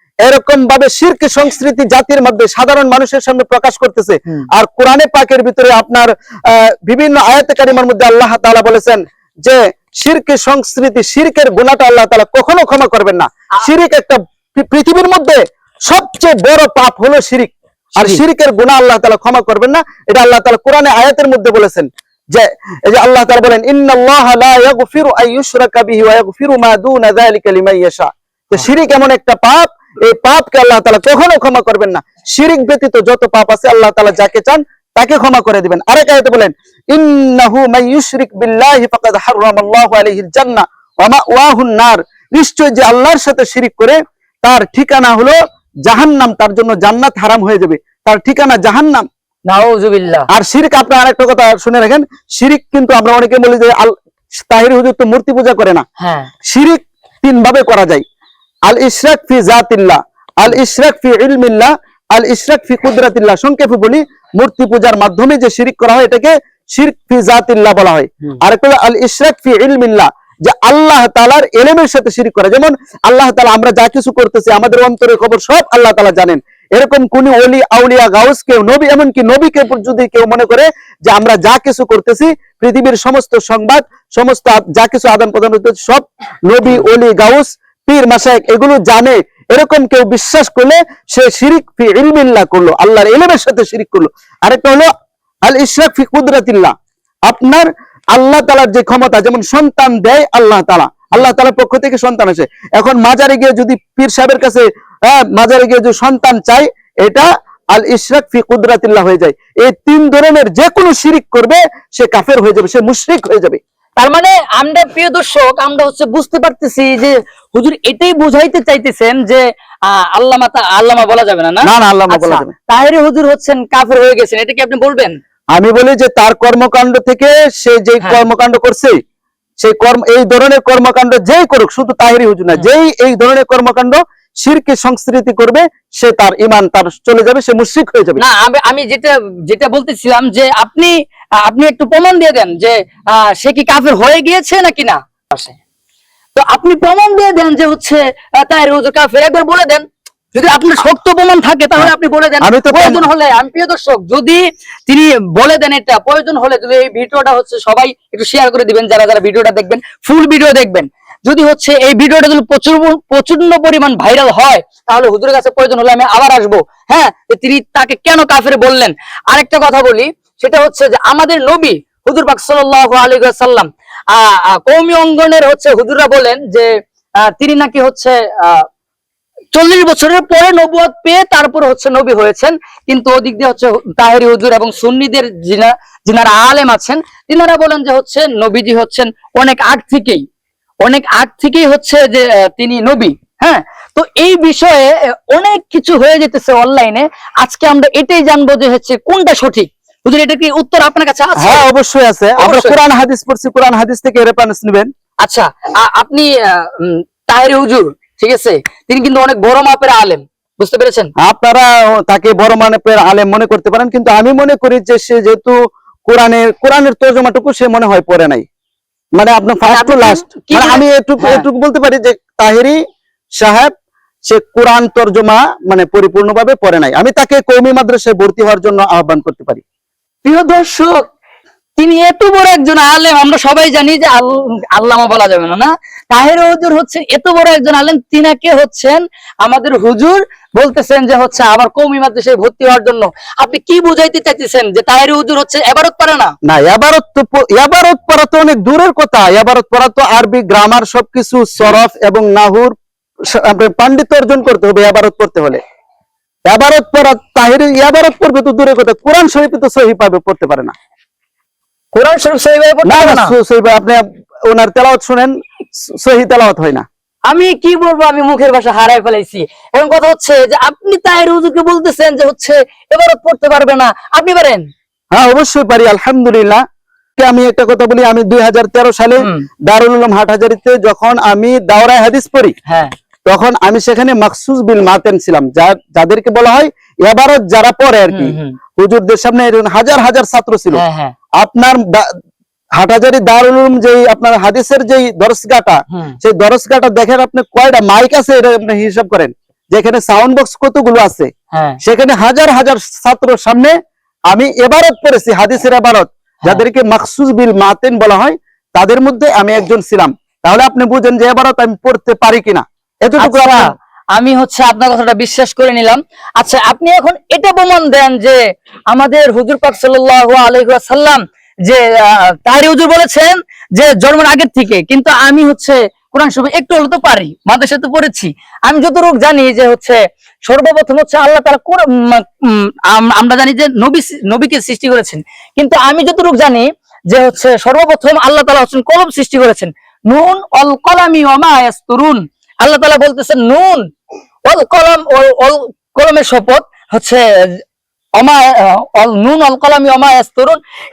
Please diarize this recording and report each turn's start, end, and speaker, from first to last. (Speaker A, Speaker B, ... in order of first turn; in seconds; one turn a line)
Speaker A: 0.2-49.1
Speaker B: 49.5-50.3
Speaker A: 50.3-53.9
Speaker A: 54.5-55.9
Speaker B: 56.0-56.3
Speaker A: 56.5-58.0
Speaker A: 58.7-94.9
Speaker A: 95.5-96.7
Speaker A: 97.3-113.6
Speaker B: 114.0-125.2
Speaker A: 121.6-122.5
Speaker A: 125.5-129.0
Speaker A: 129.6-138.2
Speaker B: 138.2-145.6
Speaker B: 146.3-178.7
Speaker A: 151.8-153.1
Speaker B: 179.5-190.2
Speaker B: 190.8-201.7
Speaker A: 201.4-204.9
Speaker B: 202.4-202.8
Speaker B: 205.2-211.1
Speaker A: 211.2-218.4
Speaker A: 219.2-222.8
Speaker B: 219.7-221.4
Speaker A: 223.4-223.7
Speaker A: 224.3-229.6
Speaker B: 230.2-231.1
Speaker B: 231.8-246.3
Speaker A: 246.4-252.7
Speaker A: 253.3-255.6
Speaker A: 256.5-260.7
Speaker B: 261.9-263.4
Speaker A: 262.9-266.8
Speaker B: 267.3-274.7
Speaker A: 275.1-276.6
Speaker A: 277.2-282.5
Speaker B: 279.2-279.5
Speaker B: 282.7-282.9
Speaker A: 283.3-290.8
Speaker B: 288.1-288.6
Speaker B: 290.7-291.1
Speaker A: 291.4-292.1
Speaker A: 292.8-303.8
Speaker B: 295.9-296.2
Speaker B: 301.5-301.8
Speaker A: 304.3-313.7
Speaker B: 313.2-343.9
Speaker B: 344.5-347.6
Speaker B: 348.2-350.6